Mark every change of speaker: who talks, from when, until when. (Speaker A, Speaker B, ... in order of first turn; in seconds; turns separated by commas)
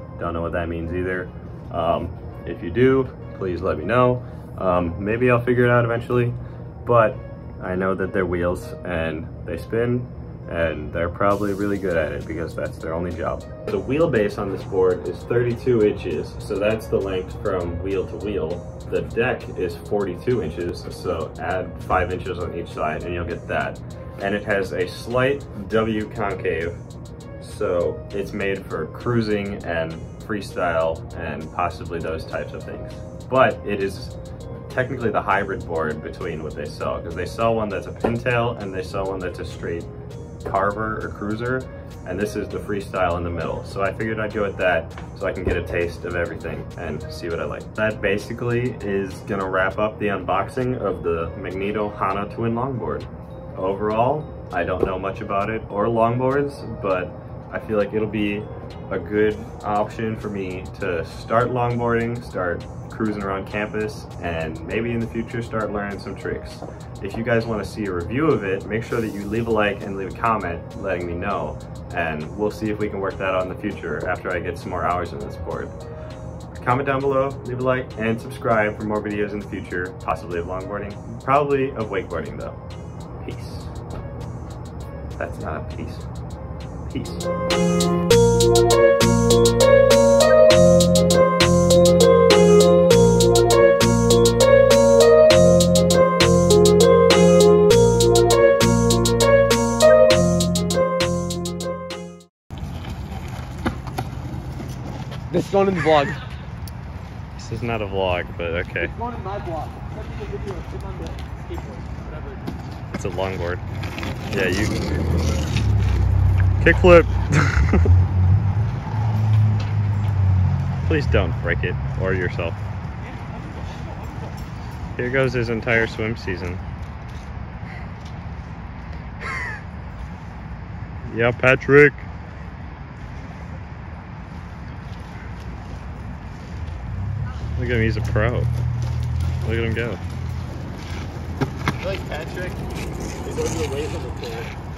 Speaker A: 0.2-26.8, Speaker A: 27.4-39.9, Speaker A: 40.4-75.8, Speaker A: 76.5-82.6, Speaker A: 83.2-83.8, Speaker A: 85.2-86.0, Speaker A: 86.9-87.3, Speaker B: 105.3-106.2, Speaker A: 107.4-109.0, Speaker B: 108.9-112.5, Speaker A: 112.9-113.6, Speaker A: 114.3-114.8, Speaker A: 116.6-117.9, Speaker A: 120.8-122.6, Speaker A: 125.0-126.6, Speaker A: 131.0-132.1, Speaker A: 137.6-138.5, Speaker A: 139.4-140.0, Speaker B: 141.8-142.6, Speaker B: 143.2-144.6